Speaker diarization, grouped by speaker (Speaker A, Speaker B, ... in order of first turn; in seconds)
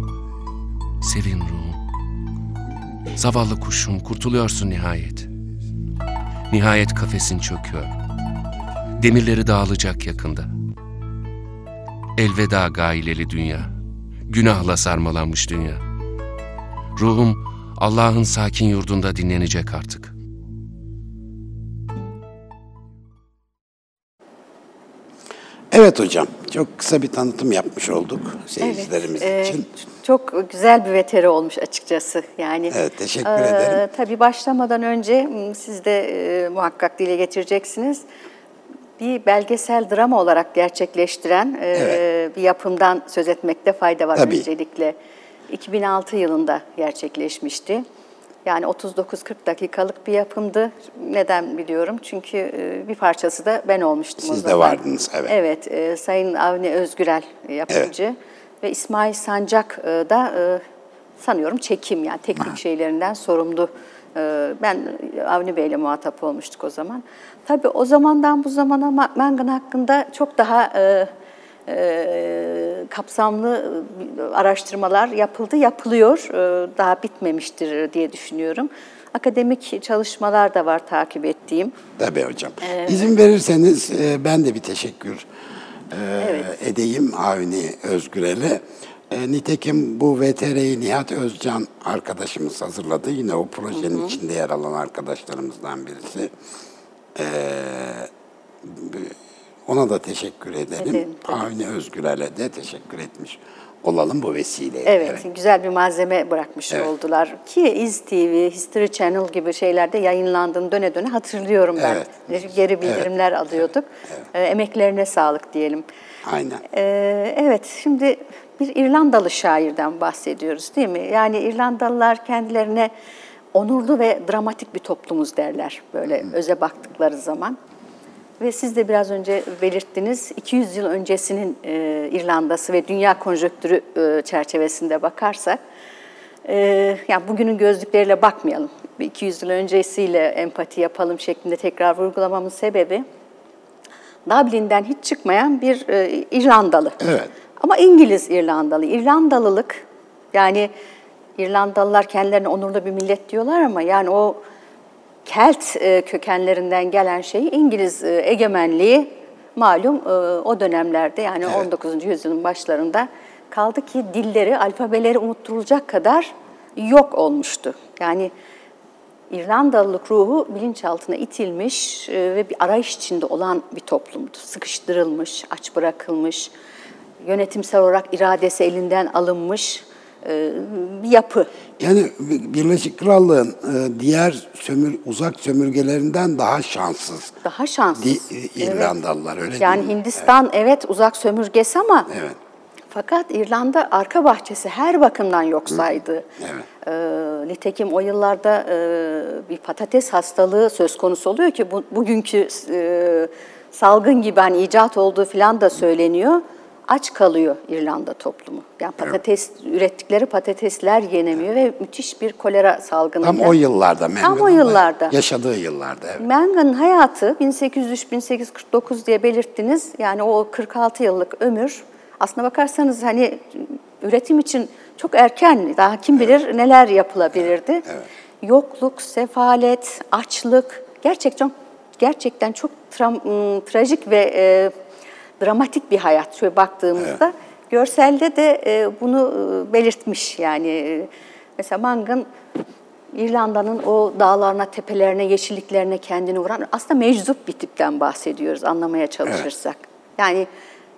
Speaker A: 1.0-1.8, 3.1-5.3, 6.5-7.9, 9.0-10.5, 12.2-13.7, 14.3-15.8, 17.0-20.1
Speaker B: 25.7-29.7, 32.7-33.8, 41.8-42.0, 44.2-44.5, 54.2-55.3, 82.0-85.3, 85.9-96.3, 97.2-98.1, 98.6-99.2, 99.7-105.2, 111.8-112.2, 116.2-116.6, 147.0-147.3, 181.8-187.3, 188.0-189.9, 192.1-192.4, 196.4-196.7, 213.2-216.2
Speaker C: 28.6-38.0, 39.0-45.0, 45.5-47.9, 48.5-60.6, 61.2-71.1, 71.7-81.8, 82.6-83.1, 86.2-86.5, 93.7-94.2, 100.8-101.3, 104.9-115.8, 116.7-122.9, 123.5-127.6, 128.4-135.6, 136.4-143.0, 144.3-147.0, 147.6-150.7, 151.4-154.4, 155.3-168.3, 169.3-176.5, 177.2-181.5, 187.4-188.9, 189.6-192.1, 192.9-196.3, 196.8-213.6, 214.2-215.2, 216.2-227.9, 228.4-234.7, 235.4-242.3, 243.1-250.5